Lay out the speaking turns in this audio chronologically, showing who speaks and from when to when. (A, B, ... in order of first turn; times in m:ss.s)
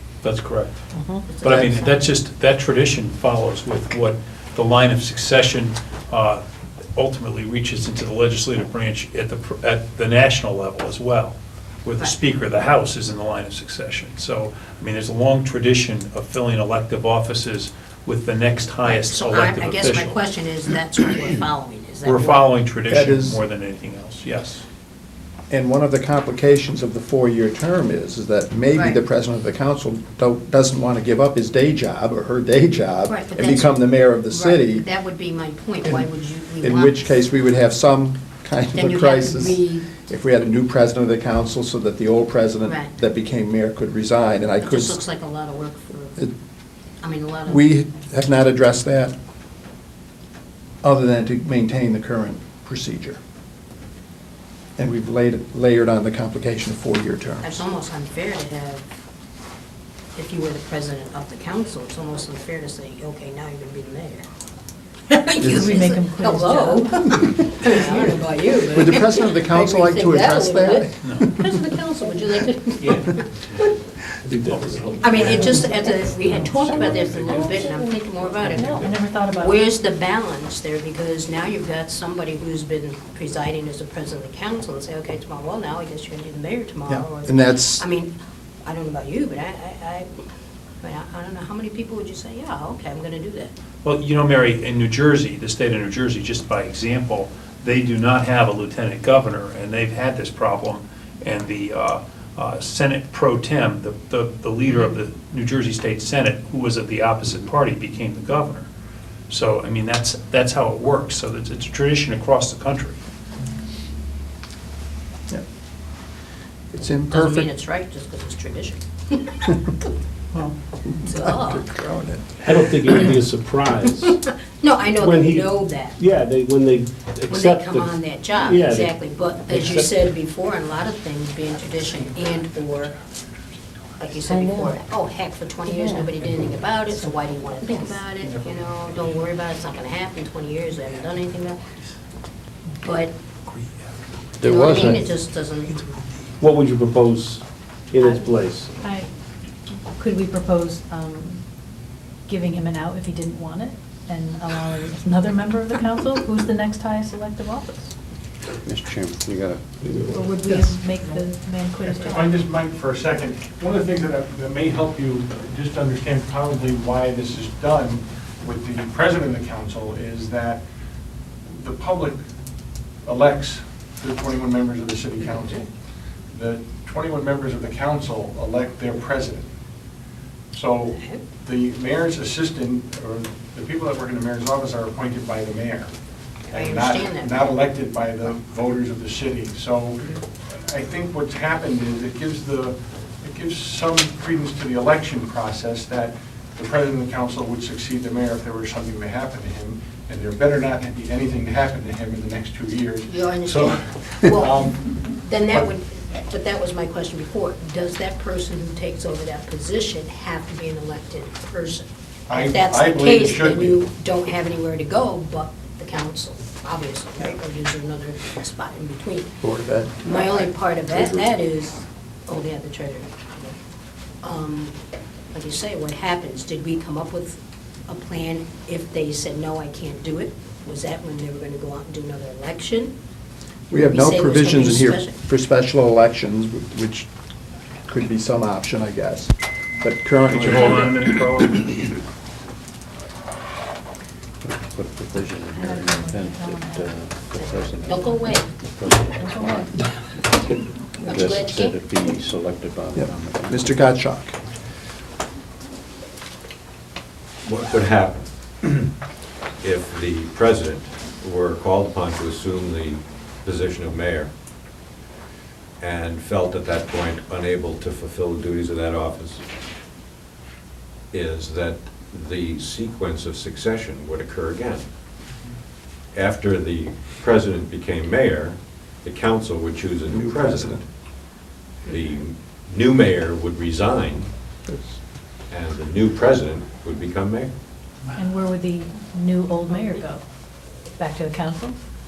0:00.2-0:00.8 A
0:00.9-0:01.3 B
0:01.3-0:02.0 C
0:01.4-0:06.4 A
0:01.4-0:01.8 D
0:07.0-0:20.2 A
0:18.8-0:22.5 C
0:22.0-0:24.6 A
0:22.9-0:23.4 D
0:25.5-0:34.8 D
0:28.7-0:29.0 C
0:33.0-0:37.2 C
0:36.6-0:45.0 D
0:38.7-0:39.9 C
0:42.6-0:42.9 C
0:44.6-0:46.2 C
0:47.0-0:47.6 C
0:47.5-0:49.1 D
0:50.8-0:53.2 D
0:54.8-0:57.4 D
0:57.4-0:58.8 C
1:00.1-1:04.2 C
1:05.1-1:13.6 C
1:05.4-1:05.7 D
1:05.4-1:07.1 E
1:08.7-1:11.5 D
1:14.3-1:15.4 E
1:14.5-1:15.4 A
1:15.0-1:28.1 C
1:15.4-1:15.9 B
1:16.9-1:18.8 B
1:18.4-1:19.6 E
1:26.9-1:27.8 D
1:28.6-1:30.1 C
1:30.8-1:33.5 C
1:33.8-1:48.7 A
1:49.3-1:53.0 A
1:56.7-1:57.5 D
1:57.1-1:59.5 C
2:00.9-2:02.9 D
2:01.0-2:01.7 C
2:02.4-2:04.2 F
2:04.0-2:06.0 C
2:05.0-2:10.0 F
2:07.3-2:12.9 C
2:14.0-2:21.6 C
2:14.2-2:14.8 B
2:15.7-2:16.1 B
2:17.7-2:17.9 B
2:22.8-2:23.1 C
2:23.4-2:23.9 A
2:24.4-2:25.0 D
2:24.4-2:25.8 C
2:26.4-2:28.8 F
2:28.8-2:29.1 E
2:29.9-2:31.4 E
2:32.3-2:37.9 E
2:38.6-2:40.1 B
2:40.1-2:42.5 E
2:41.9-2:50.6 G
2:51.5-2:52.2 G
2:53.0-2:55.7 G
2:56.3-2:59.4 G
3:00.5-3:05.9 G
3:00.9-3:01.2 C
3:06.5-3:07.5 C
3:06.5-3:10.1 G
3:10.7-3:24.8 G
3:23.1-3:39.3 C
3:32.3-3:33.8 G
3:39.4-3:40.0 D
3:40.0-3:43.5 C
3:44.2-3:44.7 C
3:45.3-3:52.9 C
3:53.7-3:57.1 D
3:53.7-3:55.2 C
3:57.9-4:00.9 D
4:00.3-4:01.8 A
4:04.4-4:09.8 B
4:05.5-4:08.5 E
4:07.4-4:08.5 C
4:09.2-4:09.7 E
4:11.0-4:11.8 C
4:11.0-4:13.7 B
4:13.0-4:14.3 D
4:17.4-4:18.9 H
4:19.6-4:24.3 H
4:25.8-4:29.4 H
4:31.1-4:34.8 H
4:36.1-4:40.8 H
4:40.1-4:40.8 D
4:41.8-4:44.3 H
4:44.7-4:44.9 D
4:45.5-4:47.5 H
4:48.1-4:50.2 E
4:51.0-4:51.8 E